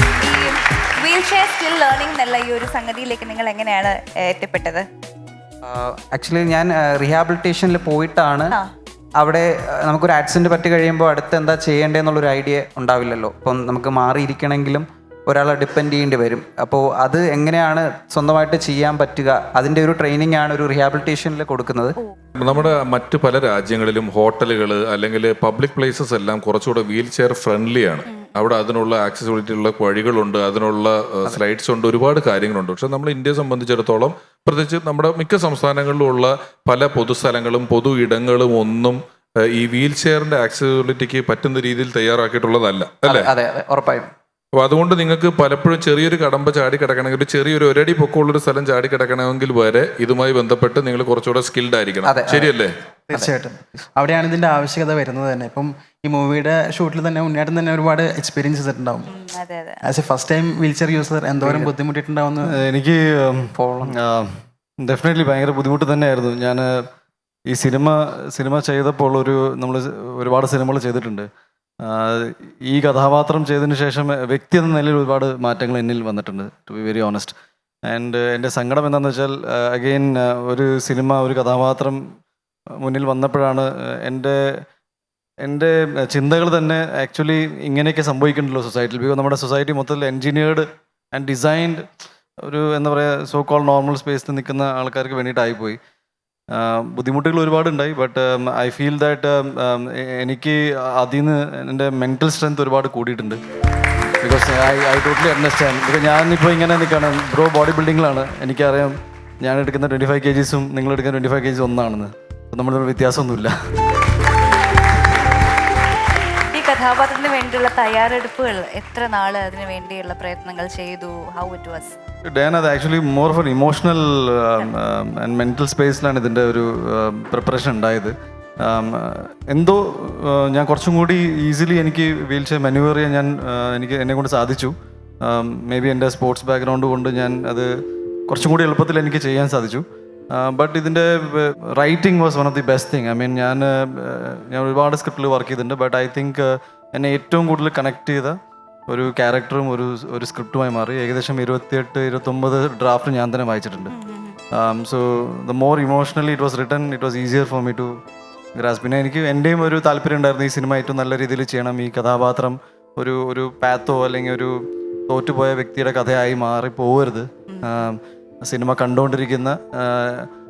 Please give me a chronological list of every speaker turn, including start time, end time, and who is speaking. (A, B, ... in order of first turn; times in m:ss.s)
0:00.2-0:04.9 A
0:05.6-0:08.5 B
0:09.2-0:21.9 B
0:22.4-0:43.3 C
0:43.0-0:44.1 B
0:44.5-0:52.7 C
0:52.0-0:52.5 B
0:53.1-0:59.1 D
0:59.1-0:59.8 A
0:59.8-1:02.6 D
1:02.5-1:06.7 E
1:03.6-1:03.9 B
1:07.5-1:11.3 E
1:11.8-1:17.3 E
1:17.9-1:22.0 E
1:22.8-1:24.4 E
1:25.4-1:31.8 E
1:32.4-1:35.8 E
1:36.5-1:43.4 E
1:44.2-1:53.5 E
1:56.5-2:02.0 A
2:02.3-2:14.7 E
2:15.2-2:17.7 E
2:18.3-2:33.9 E
2:33.9-2:34.4 A
2:34.5-2:37.9 E
2:38.6-2:44.6 E
2:45.1-2:50.3 E
2:47.5-2:47.8 A